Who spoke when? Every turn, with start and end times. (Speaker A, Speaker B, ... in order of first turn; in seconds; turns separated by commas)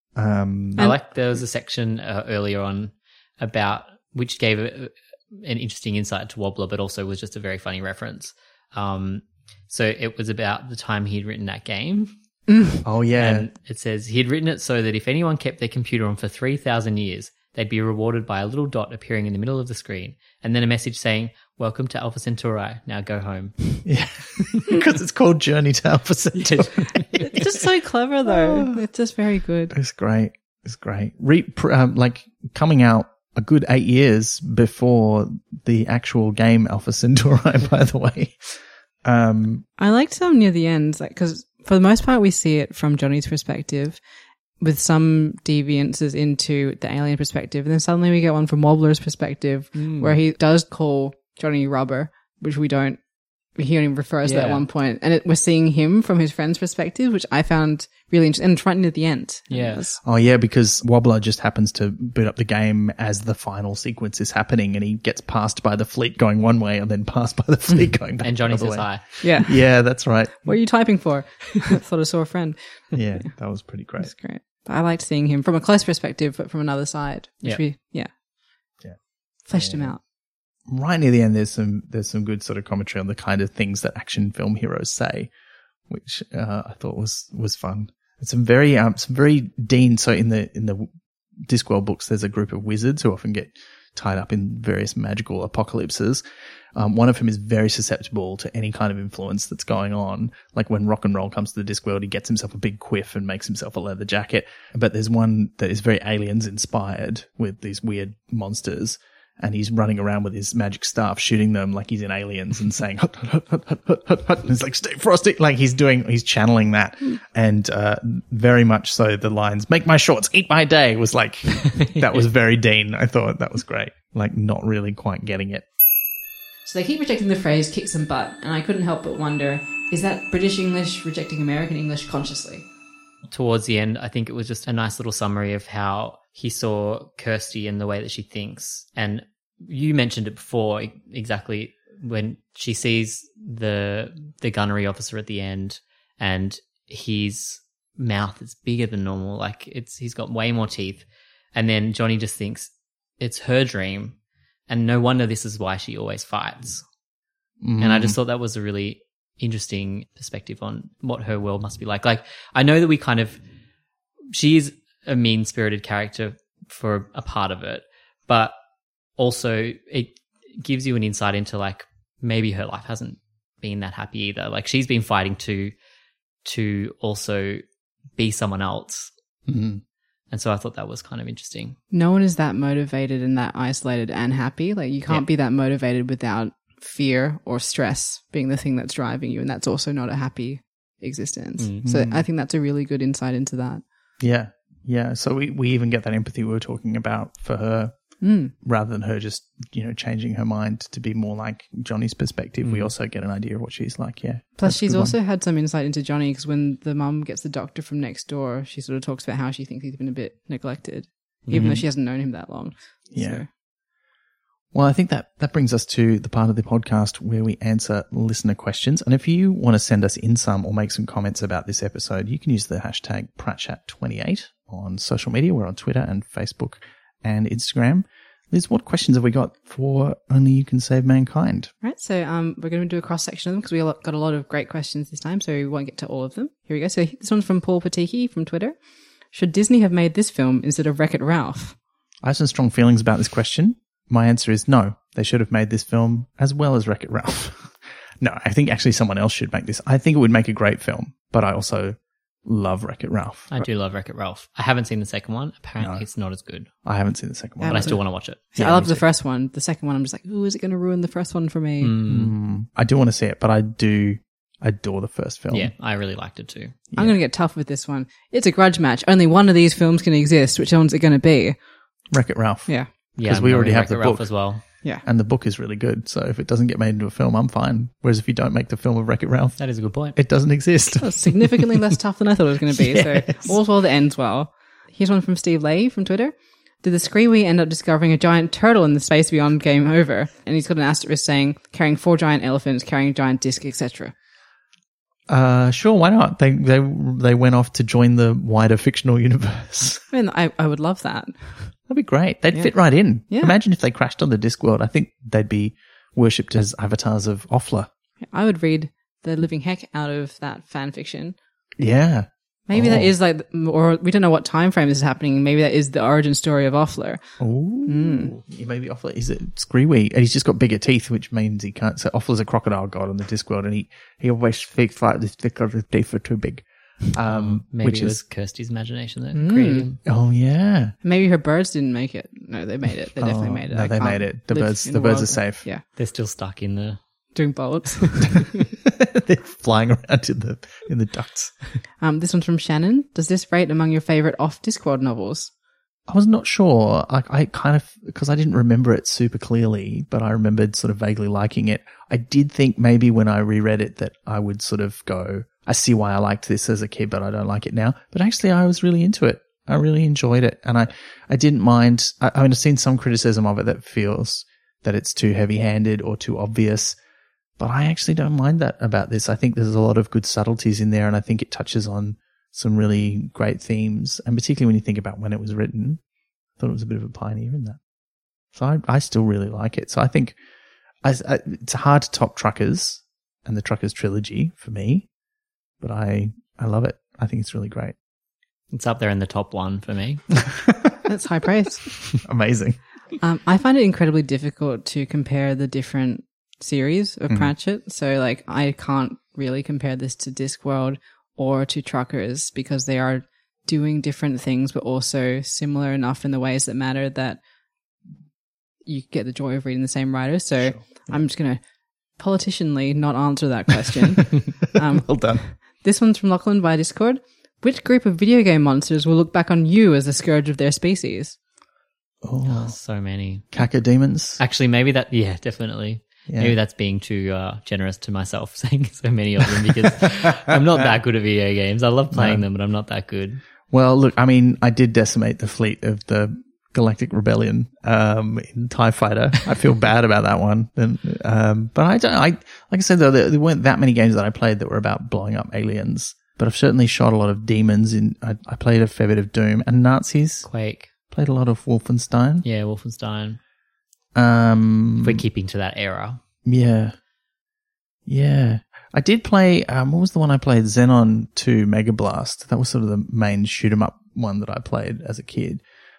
Speaker A: 0.1-0.9, Speaker B: 0.8-12.2, Speaker C: 12.5-12.8, Speaker A: 12.8-13.5, Speaker B: 13.2-23.6, Speaker A: 23.8-27.5, Speaker B: 26.4-27.1, Speaker C: 27.2-29.7, Speaker A: 28.3-28.8, Speaker A: 29.7-39.6, Speaker C: 39.8-44.0, Speaker C: 44.6-53.0, Speaker B: 49.8-50.1, Speaker C: 53.5-60.0, Speaker B: 54.2-54.6, Speaker B: 59.5-59.9, Speaker A: 60.0-70.6, Speaker B: 68.2-69.0, Speaker C: 69.2-69.7, Speaker C: 70.4-73.3, Speaker A: 72.9-74.1, Speaker C: 74.0-78.1, Speaker C: 79.4-80.0, Speaker A: 79.5-79.9, Speaker A: 80.7-85.3, Speaker A: 85.9-90.9, Speaker A: 91.4-96.2, Speaker A: 96.7-125.6, Speaker B: 121.8-122.2, Speaker C: 126.6-132.6, Speaker B: 133.3-154.2, Speaker B: 154.7-156.8, Speaker A: 157.6-158.2, Speaker B: 157.8-163.4, Speaker B: 164.3-168.5, Speaker B: 169.1-175.7, Speaker B: 176.4-177.6, Speaker B: 178.2-179.1, Speaker A: 179.5-179.8, Speaker B: 180.3-181.8, Speaker C: 181.9-193.8, Speaker B: 191.6-191.8, Speaker A: 191.8-192.2, Speaker A: 194.2-205.2, Speaker C: 198.2-198.5, Speaker B: 202.6-202.9, Speaker C: 204.6-213.5, Speaker B: 211.5-211.8, Speaker A: 211.5-211.8, Speaker A: 213.1-213.4, Speaker A: 214.7-231.7, Speaker C: 231.8-238.8, Speaker C: 239.3-241.8, Speaker A: 242.2-253.5, Speaker B: 253.5-256.7, Speaker A: 255.8-256.1, Speaker A: 256.8-258.0, Speaker C: 257.6-262.0, Speaker B: 257.7-259.0, Speaker A: 258.6-258.9, Speaker B: 261.8-262.3, Speaker A: 262.1-265.7, Speaker B: 265.5-266.8, Speaker A: 266.9-267.2, Speaker C: 266.9-271.6, Speaker A: 272.1-279.6, Speaker B: 273.1-274.6, Speaker B: 279.6-280.2, Speaker A: 280.1-282.0, Speaker C: 281.0-294.1, Speaker A: 282.7-283.4, Speaker A: 295.3-300.0, Speaker C: 300.1-301.7, Speaker A: 301.9-307.9, Speaker C: 302.5-303.5, Speaker C: 308.3-311.4, Speaker A: 311.8-313.1, Speaker C: 312.7-317.2, Speaker A: 317.4-328.2, Speaker C: 317.8-318.3, Speaker B: 327.2-330.0, Speaker C: 329.3-329.9, Speaker A: 330.0-330.9, Speaker C: 331.0-335.8, Speaker A: 333.2-335.6, Speaker B: 335.9-337.0, Speaker C: 337.3-338.4, Speaker A: 338.9-341.6, Speaker C: 342.0-345.5, Speaker A: 346.1-367.0, Speaker A: 367.6-376.0, Speaker A: 376.6-377.8, Speaker A: 378.5-380.4, Speaker A: 381.0-385.1, Speaker A: 385.8-387.9, Speaker B: 388.7-390.2, Speaker A: 390.4-391.0, Speaker C: 391.1-392.0, Speaker A: 392.2-392.8, Speaker C: 393.2-407.4, Speaker C: 408.8-421.4, Speaker A: 410.6-411.2, Speaker A: 414.9-415.4, Speaker A: 422.2-422.8, Speaker B: 422.4-423.5, Speaker A: 423.5-424.4, Speaker B: 424.4-433.4, Speaker A: 426.3-426.6, Speaker A: 432.1-432.4, Speaker A: 433.7-452.4, Speaker B: 450.4-450.9, Speaker B: 452.4-453.4, Speaker A: 454.1-455.2, Speaker B: 455.0-456.2, Speaker A: 456.4-456.9, Speaker A: 458.1-465.6